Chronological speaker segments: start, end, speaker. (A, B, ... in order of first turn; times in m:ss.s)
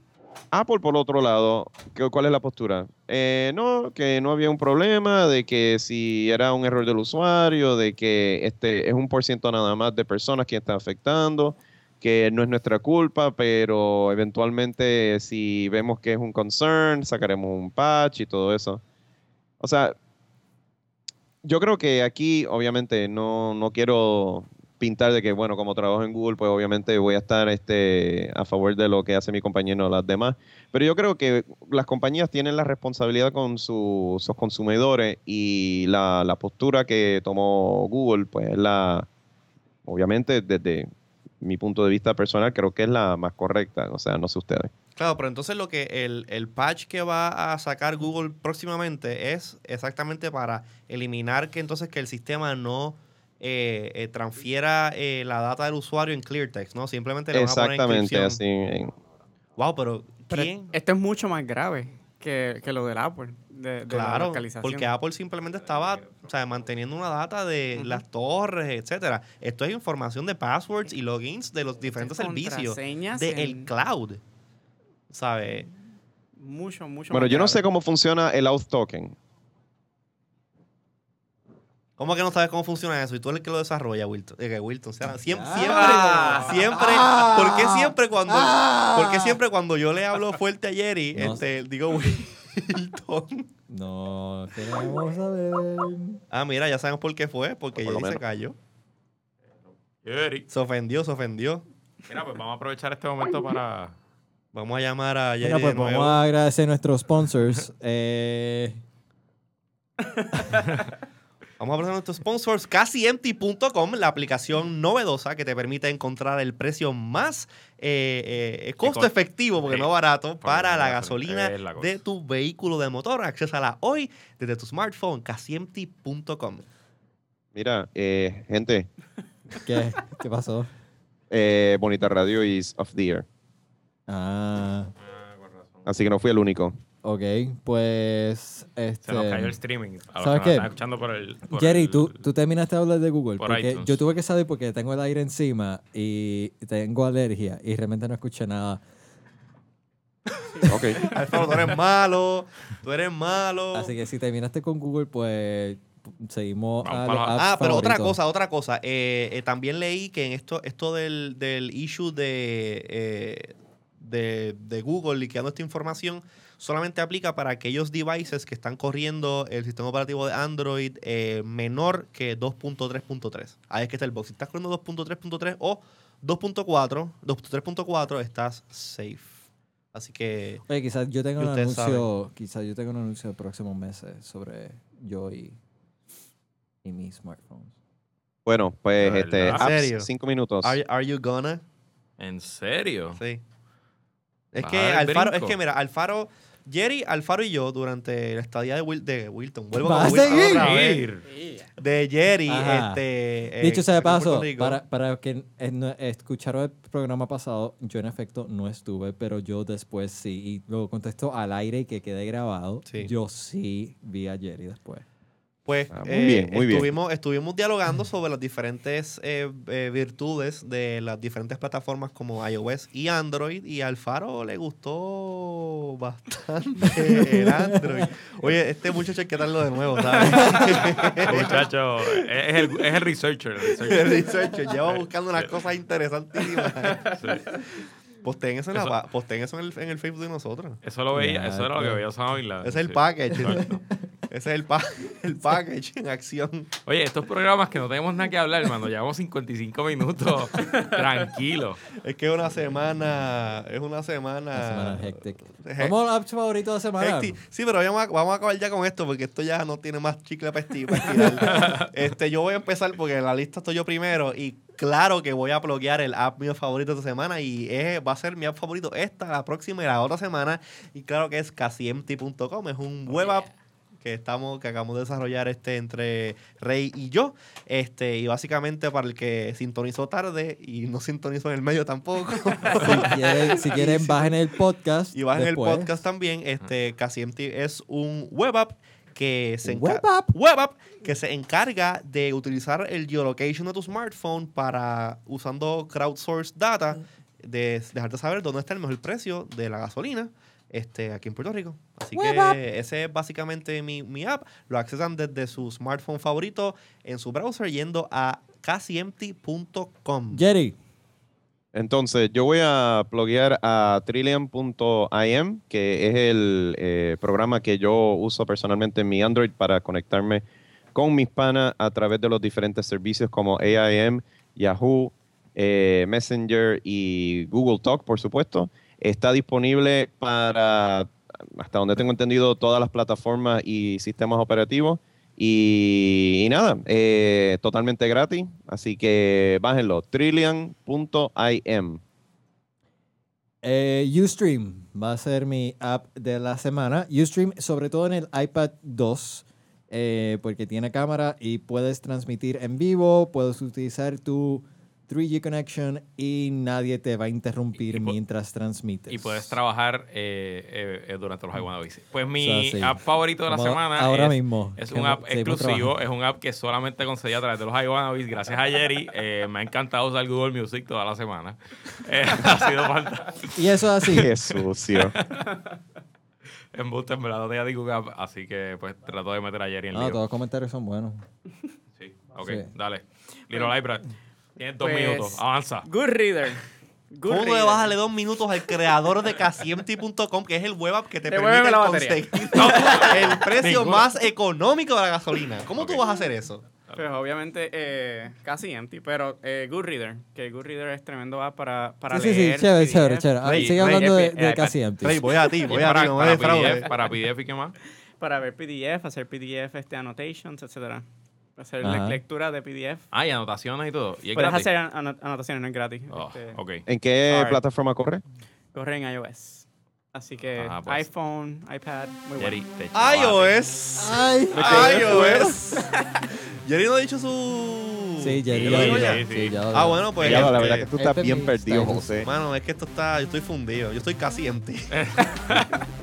0:00.5-0:18.8 A
0:19.6-0:19.9 A
0:21.4-0:39.1 A
0:39.8-0:40.9 A
0:41.4-0:44.7 A
0:45.0-0:58.4 B
0:57.3-0:58.9 A
0:59.6-1:00.7 B
1:00.3-1:04.9 C
1:03.9-1:14.2 B
1:07.8-1:08.0 C
1:12.0-1:13.7 C
1:15.1-1:15.7 B
1:16.4-1:17.6 C
1:17.1-1:19.1 A
1:22.0-1:33.5 B
1:25.2-1:29.4 D
1:25.6-1:26.6 E
1:31.1-1:31.4 D
1:33.7-1:36.2 D
1:36.3-1:38.6 B
1:37.7-1:38.2 A
1:40.0-1:40.5 E
1:40.5-1:41.6 B
1:42.1-1:43.9 E
1:44.5-1:46.2 B
1:45.4-1:48.8 D
1:51.6-2:06.6 B
1:58.8-2:02.0 E
2:07.5-2:08.9 A
2:09.6-2:10.7 D
2:11.3-2:13.2 A
2:14.1-2:14.9 D
2:15.0-2:15.8 E
2:15.8-2:16.8 A
2:17.0-2:19.6 D
2:19.0-2:22.2 E
2:20.2-2:20.7 D
2:21.5-2:28.8 D
2:23.4-2:24.0 E
2:30.5-2:31.0 C
2:30.7-2:31.0 A
2:31.0-2:33.9 B
2:33.7-2:38.2 D
2:36.8-2:37.6 E
2:37.4-2:59.4 B
2:59.9-3:00.6 B
3:00.7-3:05.6 D
3:01.4-3:02.0 B
3:06.8-3:07.7 D
3:08.4-3:10.8 A
3:09.0-3:09.6 E
3:09.4-3:10.1 B
3:10.6-3:11.6 B
3:12.2-3:13.2 E
3:13.2-3:13.4 B
3:14.5-3:21.1 B
3:14.6-3:15.6 E
3:19.8-3:20.8 D
3:20.0-3:21.3 E
3:21.4-3:21.6 C
3:21.8-3:24.8 B
3:22.5-3:23.0 D
3:23.6-3:35.0 D
3:35.6-3:51.6 B
3:35.9-3:36.9 A
3:46.9-3:48.1 D
3:50.2-3:50.9 D
3:50.5-3:55.6 E
3:53.8-3:57.2 B
3:57.0-3:57.6 E
3:58.2-4:00.8 B
4:00.8-4:03.8 E
4:01.1-4:02.0 D
4:02.6-4:03.8 B
4:03.4-4:03.8 D
4:04.3-4:06.7 B
4:06.8-4:11.8 E
4:11.9-4:15.9 B
4:14.5-4:17.4 D
4:17.0-4:33.5 B
4:20.9-4:21.7 D
4:21.5-4:21.8 E
4:34.0-4:44.4 B
4:42.7-4:46.0 D
4:45.1-5:10.4 B
4:49.6-4:50.3 D
5:02.1-5:02.6 D
5:10.3-5:10.8 D
5:11.7-5:20.4 A
5:20.9-5:42.0 A
5:43.6-5:59.6 D
5:57.9-5:58.1 E
5:59.1-6:15.5 E
6:02.4-6:05.9 D
6:13.5-6:14.3 D
6:14.1-6:15.2 A
6:16.7-6:20.2 E
6:19.9-6:21.2 D
6:22.0-6:25.9 E
6:22.4-6:22.7 D
6:24.8-6:27.9 C
6:27.3-6:36.6 B
6:31.3-6:33.5 C
6:32.5-6:34.1 E
6:35.8-6:36.0 E
6:36.9-6:44.8 C
6:42.1-6:45.2 D
6:43.4-6:44.1 B
6:45.0-6:46.8 B
6:45.6-6:47.7 E
6:45.8-6:46.7 C
6:48.2-6:51.0 C
6:51.6-6:53.0 C
6:51.8-6:52.2 D
6:53.1-6:54.7 E
6:54.3-6:56.6 C
6:56.1-6:56.8 E
6:56.8-6:58.2 A
6:57.3-6:57.6 C
6:58.7-7:02.6 C
7:00.6-7:01.0 E
7:02.4-7:03.5 E
7:02.9-7:05.9 B
7:04.0-7:05.5 D
7:04.6-7:05.5 A
7:04.6-7:05.0 E
7:05.9-7:06.3 C
7:06.6-7:10.9 B
7:08.2-7:12.2 D
7:08.5-7:09.6 E
7:10.2-7:12.3 A
7:10.2-7:10.8 E
7:12.2-7:14.9 B
7:14.9-7:15.7 E